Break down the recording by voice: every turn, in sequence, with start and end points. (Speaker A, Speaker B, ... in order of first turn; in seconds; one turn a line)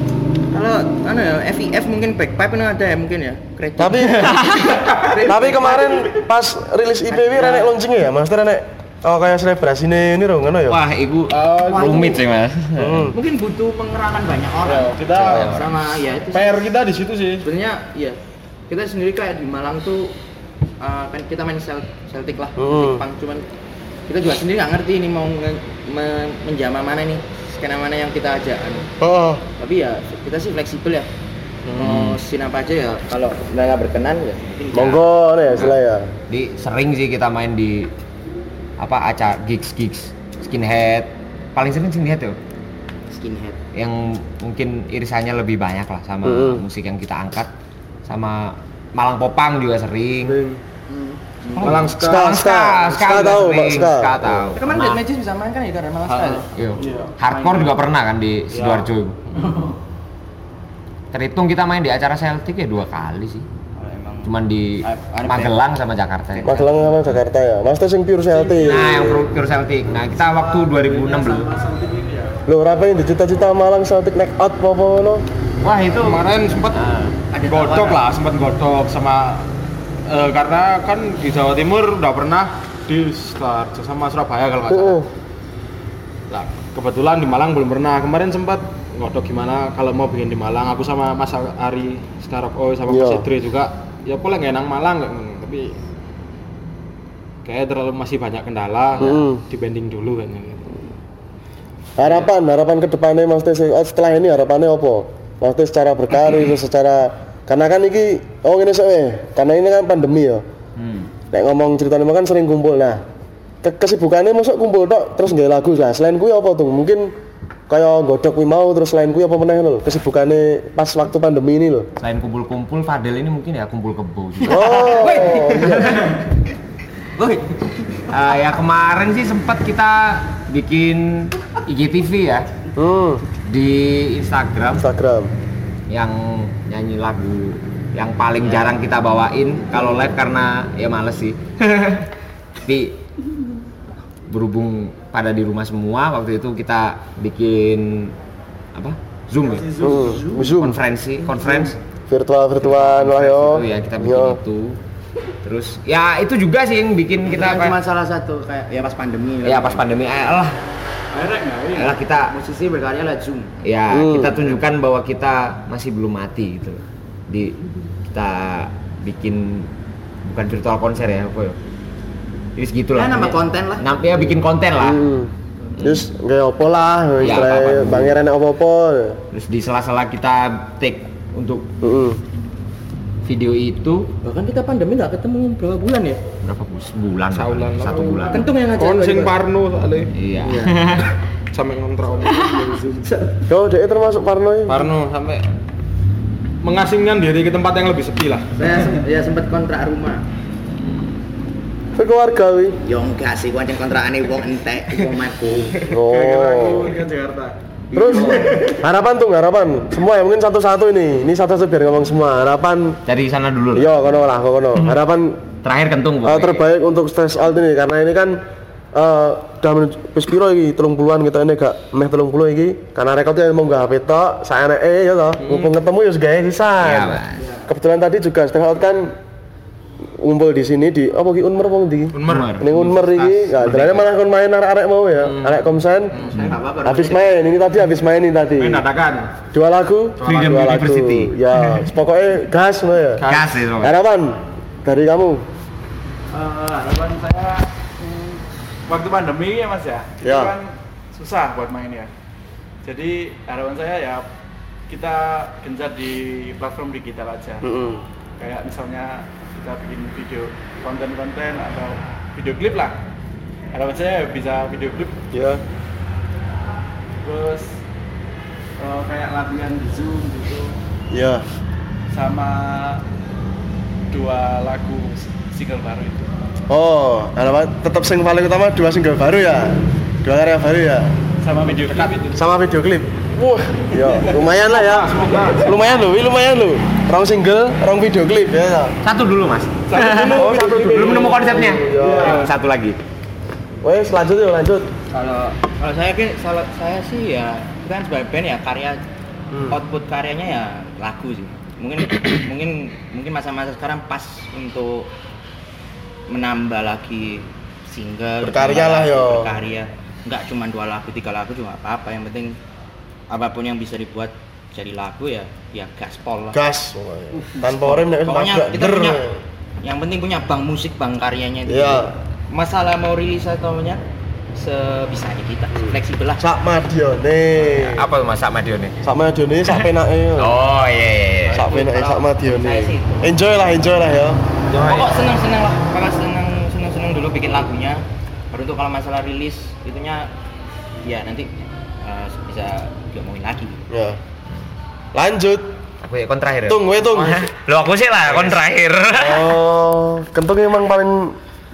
Speaker A: 0.5-6.1
Speaker B: 3.8-4.4
Speaker C: 4.2-4.8
Speaker B: 5.2-10.8
Speaker C: 10.7-13.1
Speaker D: 11.3-12.2
Speaker A: 11.6-12.2
Speaker B: 12.8-13.2
Speaker A: 13.1-16.6
Speaker D: 14.7-15.7
Speaker B: 15.2-15.6
Speaker D: 16.3-17.4
Speaker A: 17.4-18.2
Speaker A: 18.7-20.2
Speaker A: 20.8-23.4
Speaker B: 22.6-23.0
Speaker A: 24.1-28.9
Speaker B: 29.0-29.4
Speaker A: 29.6-31.1
Speaker A: 31.8-35.0
Speaker C: 31.8-32.2
Speaker B: 34.7-36.1
Speaker C: 36.3-37.9
Speaker C: 38.8-42.4
Speaker A: 43.1-43.6
Speaker C: 43.7-47.5
Speaker B: 46.2-46.6
Speaker C: 48.1-50.4
Speaker B: 50.2-50.6
Speaker A: 51.4-51.9
Speaker D: 51.6-52.4
Speaker C: 51.6-55.0
Speaker B: 52.0-54.6
Speaker A: 54.5-56.5
Speaker D: 56.1-57.1
Speaker C: 56.5-59.2
Speaker A: 57.2-57.7
Speaker D: 58.5-58.9
Speaker C: 61.1-63.5
Speaker A: 63.7-65.6
Speaker C: 64.2-67.1
Speaker A: 66.4-66.7
Speaker B: 66.4-69.1
Speaker E: 68.4-69.3
Speaker C: 68.5-71.5
Speaker E: 70.4-72.4
Speaker B: 72.5-75.2
Speaker C: 75.6-76.2
Speaker D: 76.0-76.9
Speaker C: 76.7-77.2
Speaker A: 77.3-78.0
Speaker D: 77.5-79.5
Speaker D: 80.1-85.0
Speaker B: 84.7-85.1
Speaker D: 86.3-95.8
Speaker B: 92.9-93.3
Speaker D: 97.5-100.8
Speaker B: 99.0-99.4
Speaker B: 102.0-110.4
Speaker D: 102.0-102.3
Speaker C: 110.8-111.1
Speaker B: 111.3-113.0
Speaker B: 113.6-117.1
Speaker B: 117.7-121.9
Speaker C: 122.0-126.1
Speaker B: 124.5-126.1
Speaker A: 124.6-125.9
Speaker A: 127.2-127.8
Speaker C: 128.1-132.5
Speaker B: 132.8-133.2
Speaker C: 133.4-134.8
Speaker B: 134.7-135.3
Speaker C: 135.9-142.1
Speaker C: 142.6-143.0
Speaker C: 144.3-148.2
Speaker C: 148.8-151.8
Speaker E: 149.5-150.5
Speaker B: 149.8-150.8
Speaker E: 151.3-151.7
Speaker B: 152.1-154.4
Speaker C: 152.6-154.8
Speaker C: 155.4-157.8
Speaker A: 157.2-159.9
Speaker C: 159.4-160.6
Speaker E: 161.1-162.0
Speaker C: 161.7-162.3
Speaker A: 162.0-163.6
Speaker C: 163.6-167.6
Speaker B: 163.9-164.4
Speaker C: 168.1-169.7
Speaker C: 170.2-171.6
Speaker C: 172.6-175.0
Speaker A: 172.9-173.9
Speaker B: 174.8-179.2
Speaker C: 175.8-176.0
Speaker C: 177.2-178.2
Speaker C: 179.3-181.7
Speaker B: 181.8-182.2
Speaker C: 183.2-184.1
Speaker A: 184.2-186.2
Speaker C: 186.4-188.5
Speaker D: 187.3-190.1
Speaker A: 188.3-189.3
Speaker C: 190.1-191.1
Speaker A: 190.4-191.0
Speaker D: 191.5-193.0
Speaker B: 193.5-194.8
Speaker D: 194.7-195.4
Speaker D: 196.6-198.5
Speaker A: 198.6-200.2
Speaker B: 201.9-202.8
Speaker A: 202.8-205.8
Speaker D: 205.7-208.7
Speaker B: 205.7-206.9
Speaker B: 207.9-213.0
Speaker E: 208.0-208.6
Speaker C: 213.1-214.2
Speaker B: 213.7-215.4
Speaker C: 215.6-216.6
Speaker B: 216.2-218.4
Speaker B: 218.9-229.2
Speaker D: 225.4-225.7
Speaker C: 226.8-227.4
Speaker B: 230.2-236.2
Speaker D: 232.1-234.1
Speaker C: 232.3-232.7
Speaker D: 235.2-236.5
Speaker A: 236.1-237.3
Speaker B: 236.8-238.8
Speaker D: 238.6-239.3
Speaker B: 239.5-243.2
Speaker D: 240.2-240.7
Speaker C: 240.2-241.6
Speaker D: 243.2-243.6
Speaker C: 243.3-243.9
Speaker B: 243.8-245.4
Speaker E: 246.3-252.1
Speaker B: 250.2-250.6
Speaker E: 252.8-254.2
Speaker E: 254.9-257.7
Speaker B: 257.6-258.0
Speaker E: 258.4-263.0
Speaker E: 263.7-265.2
Speaker B: 265.3-265.6
Speaker E: 267.2-267.8
Speaker E: 268.8-270.8
Speaker B: 271.1-271.5
Speaker E: 272.1-273.0
Speaker E: 274.1-276.3
Speaker B: 276.7-281.2
Speaker E: 281.4-282.4
Speaker D: 281.7-282.2
Speaker B: 282.3-288.9
Speaker D: 284.3-285.7
Speaker C: 289.0-293.0
Speaker E: 289.9-292.3
Speaker B: 290.3-292.5
Speaker D: 292.0-292.4
Speaker B: 293.8-294.9
Speaker A: 295.1-299.0
Speaker B: 299.5-299.8
Speaker A: 299.7-305.1
Speaker A: 306.3-312.6
Speaker B: 308.4-309.5
Speaker A: 313.3-316.6
Speaker B: 316.5-319.4
Speaker A: 317.4-324.0
Speaker B: 321.7-322.1
Speaker A: 324.5-326.4
Speaker B: 326.4-328.1
Speaker C: 327.7-329.0
Speaker B: 329.0-330.6
Speaker C: 330.4-331.6
Speaker A: 331.5-333.2
Speaker B: 331.5-334.4
Speaker D: 334.7-335.1
Speaker A: 334.7-340.3
Speaker A: 341.0-341.5
Speaker A: 342.0-343.8
Speaker B: 343.9-344.2
Speaker B: 345.1-345.6
Speaker C: 346.0-349.5
Speaker B: 346.7-347.5
Speaker D: 348.2-348.6
Speaker B: 349.1-351.4